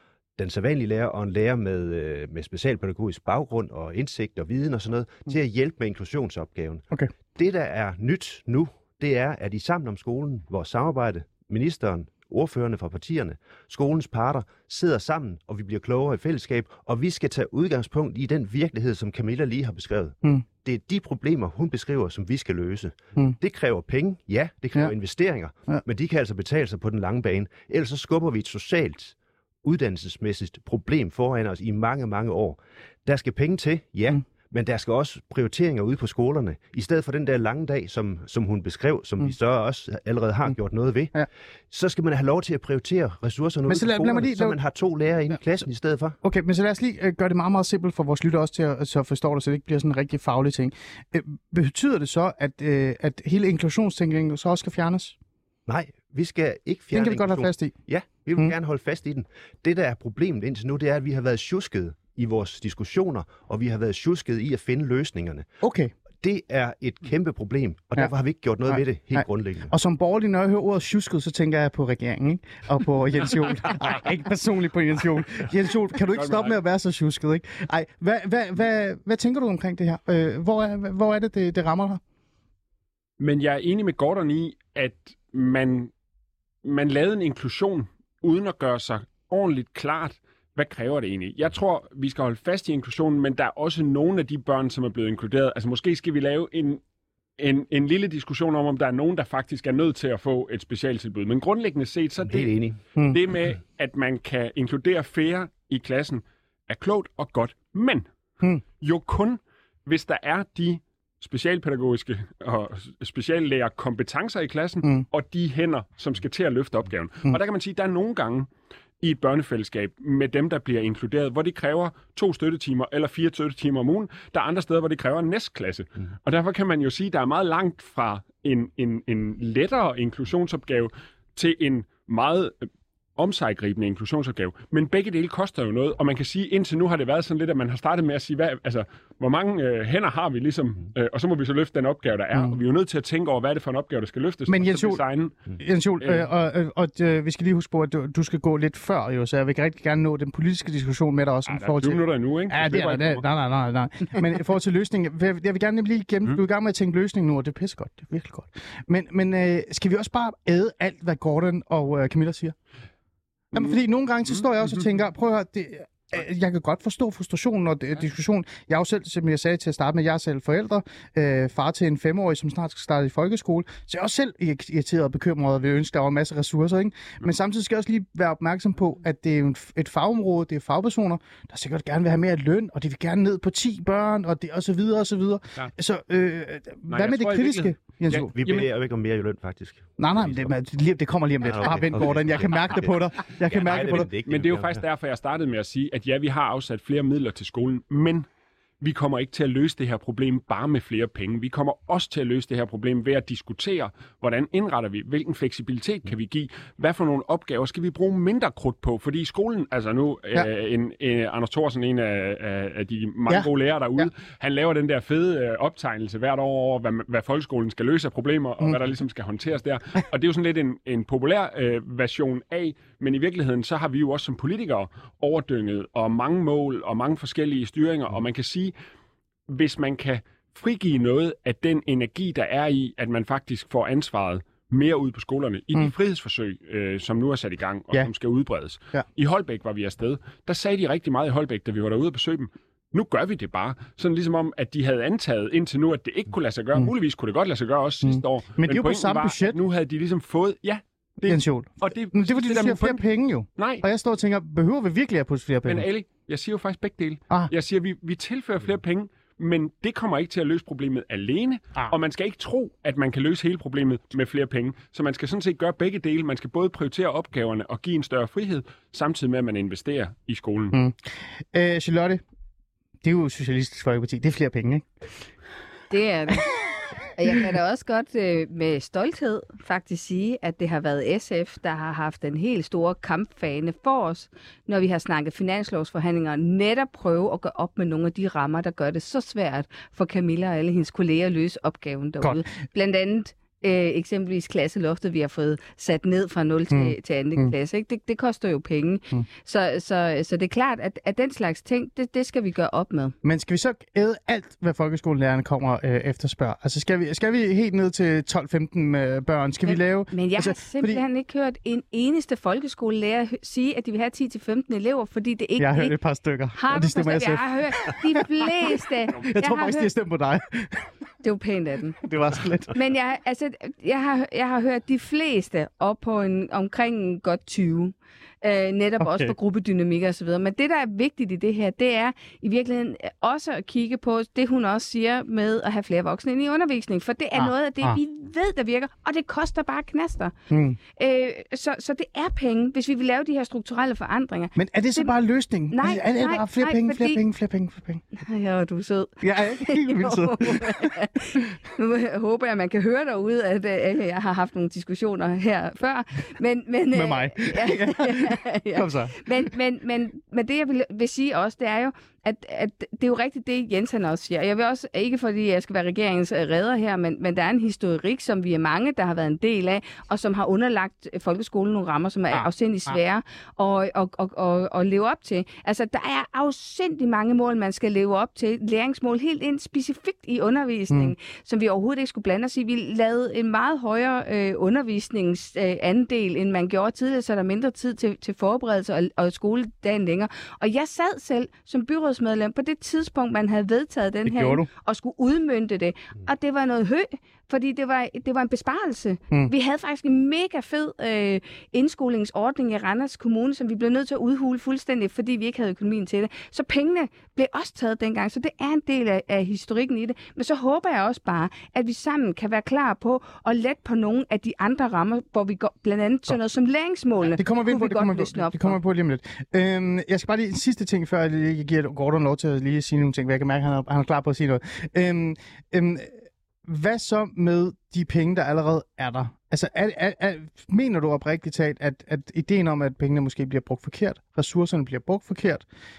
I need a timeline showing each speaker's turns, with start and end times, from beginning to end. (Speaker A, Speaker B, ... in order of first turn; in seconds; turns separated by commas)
Speaker A: 0.4-41.1, Speaker A: 41.7-46.2, Speaker B: 43.7-44.5, Speaker B: 46.2-55.1, Speaker A: 55.7-65.5, Speaker B: 56.9-57.7, Speaker B: 65.6-65.9, Speaker A: 66.2-69.7, Speaker B: 68.7-82.0, Speaker C: 76.1-76.5, Speaker C: 83.2-85.9, Speaker C: 86.6-96.8, Speaker C: 97.4-102.5, Speaker A: 102.2-102.8, Speaker C: 103.0-108.0, Speaker C: 108.8-118.5, Speaker C: 119.0-145.4, Speaker B: 142.3-142.6, Speaker B: 144.5-145.0, Speaker B: 145.6-162.6, Speaker C: 146.0-146.3, Speaker C: 151.5-153.2, Speaker B: 163.5-188.3, Speaker C: 186.9-188.7, Speaker A: 188.3-190.5, Speaker B: 190.0-194.1, Speaker A: 191.4-194.8, Speaker C: 194.2-198.2, Speaker C: 198.8-228.7, Speaker B: 213.3-214.1, Speaker C: 229.5-253.0, Speaker B: 248.0-249.6, Speaker B: 251.2-255.9, Speaker C: 253.6-253.8, Speaker C: 255.7-270.8, Speaker B: 270.7-272.2, Speaker B: 273.0-274.9, Speaker D: 275.9-276.5, Speaker D: 277.1-303.1, Speaker B: 292.2-292.5, Speaker B: 296.7-297.5, Speaker B: 303.2-311.0, Speaker D: 309.6-315.9, Speaker B: 315.6-318.5, Speaker D: 316.5-319.9, Speaker B: 319.1-320.9, Speaker D: 321.2-322.0, Speaker B: 322.0-322.7, Speaker D: 322.7-340.3, Speaker B: 329.0-329.3, Speaker B: 337.3-338.0, Speaker B: 340.5-340.8, Speaker D: 341.0-345.1, Speaker B: 344.6-348.0, Speaker D: 345.7-347.2, Speaker D: 348.2-418.8, Speaker B: 349.2-350.9, Speaker B: 356.9-359.5, Speaker B: 372.3-373.0, Speaker B: 394.2-394.7, Speaker B: 417.3-435.6